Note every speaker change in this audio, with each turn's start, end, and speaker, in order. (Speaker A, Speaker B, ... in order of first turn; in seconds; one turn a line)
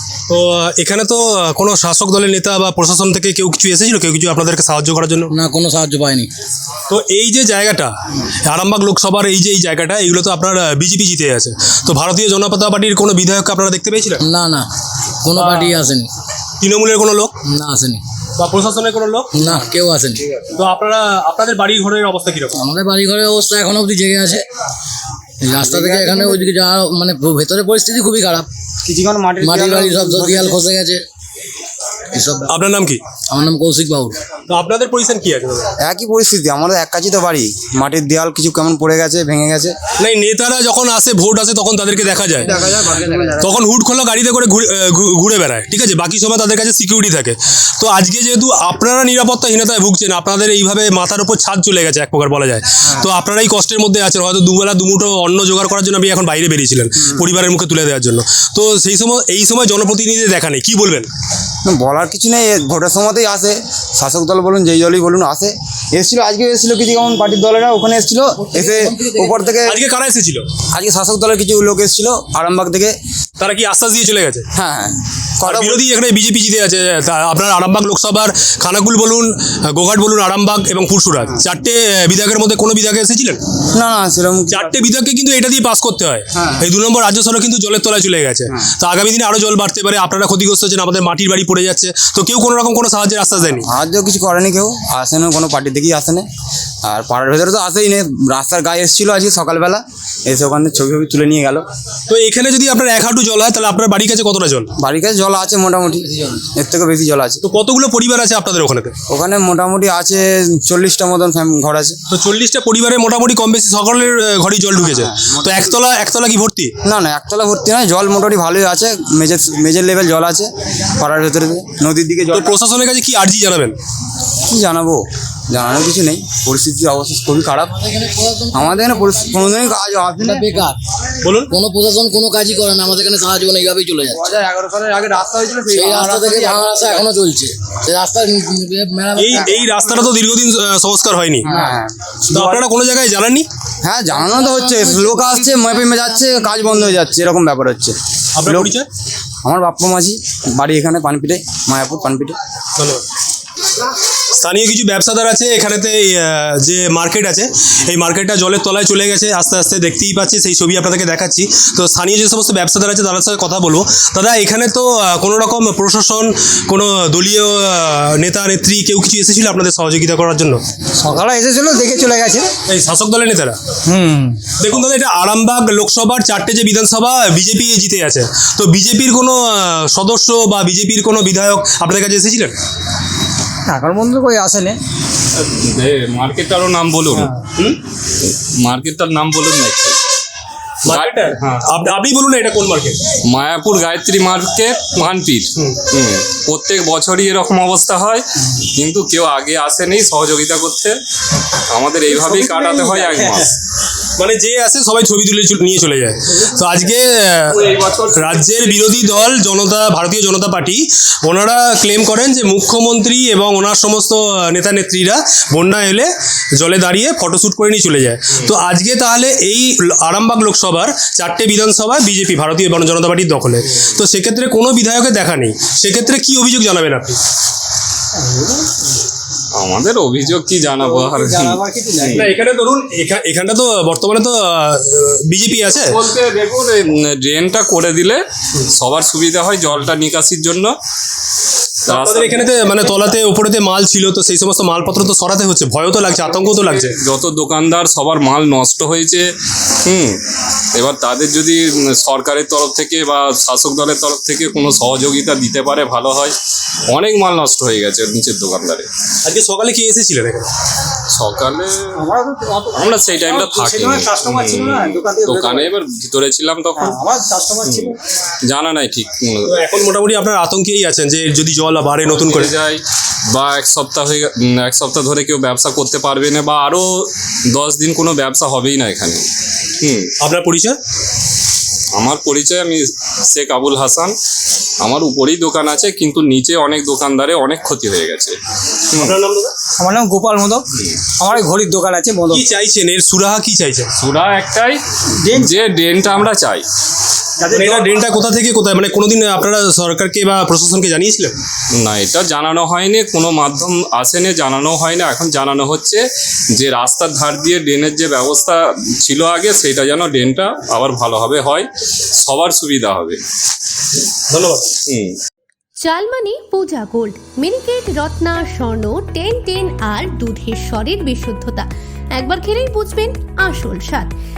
Speaker A: 0.3-5.3
Speaker B: 5.3-6.3
Speaker A: 6.9-14.2
Speaker B: 14.2-14.7
Speaker B: 15.2-16.1
Speaker A: 15.3-15.8
Speaker A: 16.6-17.3
Speaker B: 17.5-18.0
Speaker A: 18.4-19.3
Speaker B: 19.4-20.2
Speaker A: 20.6-22.6
Speaker B: 22.6-24.4
Speaker B: 25.4-28.5
Speaker C: 25.5-26.5
Speaker C: 28.8-30.6
Speaker B: 29.4-31.0
Speaker B: 32.1-32.4
Speaker A: 32.5-33.0
Speaker B: 33.3-34.2
Speaker A: 34.5-35.7
Speaker C: 35.8-39.7
Speaker A: 40.0-42.5
Speaker C: 42.4-43.6
Speaker A: 43.4-61.1
Speaker C: 61.6-69.8
Speaker B: 68.6-69.5
Speaker A: 69.6-70.5
Speaker C: 70.7-73.0
Speaker A: 73.4-74.4
Speaker C: 74.5-75.8
Speaker A: 75.4-83.4
Speaker C: 83.7-84.7
Speaker A: 84.5-93.7
Speaker C: 86.3-86.6
Speaker C: 93.6-96.2
Speaker C: 96.8-101.7
Speaker A: 102.1-104.7
Speaker C: 104.8-107.4
Speaker A: 107.4-108.9
Speaker C: 109.1-112.0
Speaker A: 112.1-116.7
Speaker C: 114.8-115.7
Speaker C: 116.8-122.5
Speaker A: 122.3-123.8
Speaker C: 124.5-127.9
Speaker B: 127.9-128.9
Speaker C: 128.5-130.5
Speaker B: 130.2-130.8
Speaker A: 131.2-131.5
Speaker B: 131.5-134.2
Speaker C: 134.1-137.0
Speaker B: 135.8-139.4
Speaker A: 139.2-141.5
Speaker C: 139.3-140.1
Speaker C: 141.4-142.6
Speaker A: 142.3-143.5
Speaker C: 143.8-147.9
Speaker B: 144.2-145.5
Speaker A: 148.3-148.9
Speaker C: 148.4-148.7
Speaker C: 149.4-152.4
Speaker A: 152.8-153.0
Speaker A: 154.3-170.6
Speaker D: 171.0-172.4
Speaker A: 172.7-173.6
Speaker D: 173.9-174.4
Speaker A: 174.6-182.6
Speaker D: 183.7-184.8
Speaker E: 185.3-187.3
Speaker E: 188.2-190.0
Speaker A: 190.8-193.0
Speaker E: 190.9-191.7
Speaker E: 193.2-201.0
Speaker E: 201.7-203.5
Speaker A: 202.4-203.3
Speaker A: 204.2-227.2
Speaker E: 229.5-232.3
Speaker D: 230.9-232.0
Speaker A: 232.1-235.9
Speaker E: 235.7-240.7
Speaker E: 241.9-242.6
Speaker A: 241.9-247.0
Speaker E: 246.2-249.2
Speaker E: 249.8-250.2
Speaker E: 250.7-256.3
Speaker E: 256.9-258.9
Speaker A: 259.2-260.5
Speaker E: 261.1-262.1
Speaker D: 262.0-265.6
Speaker E: 262.7-267.0
Speaker D: 266.8-267.9
Speaker E: 267.6-269.7
Speaker A: 269.5-272.5
Speaker E: 272.0-279.2
Speaker E: 279.8-280.1
Speaker A: 280.2-280.8
Speaker E: 281.9-284.1
Speaker E: 284.8-288.3
Speaker E: 288.9-289.1
Speaker A: 288.9-289.5
Speaker D: 289.8-290.6
Speaker E: 290.7-291.1
Speaker D: 291.2-292.4
Speaker A: 292.3-293.9
Speaker E: 294.0-296.6
Speaker D: 297.4-297.9
Speaker A: 297.5-301.4
Speaker E: 301.7-306.0
Speaker E: 306.5-311.7
Speaker E: 312.2-313.2
Speaker A: 314.3-314.7
Speaker E: 314.9-315.1
Speaker F: 315.8-324.1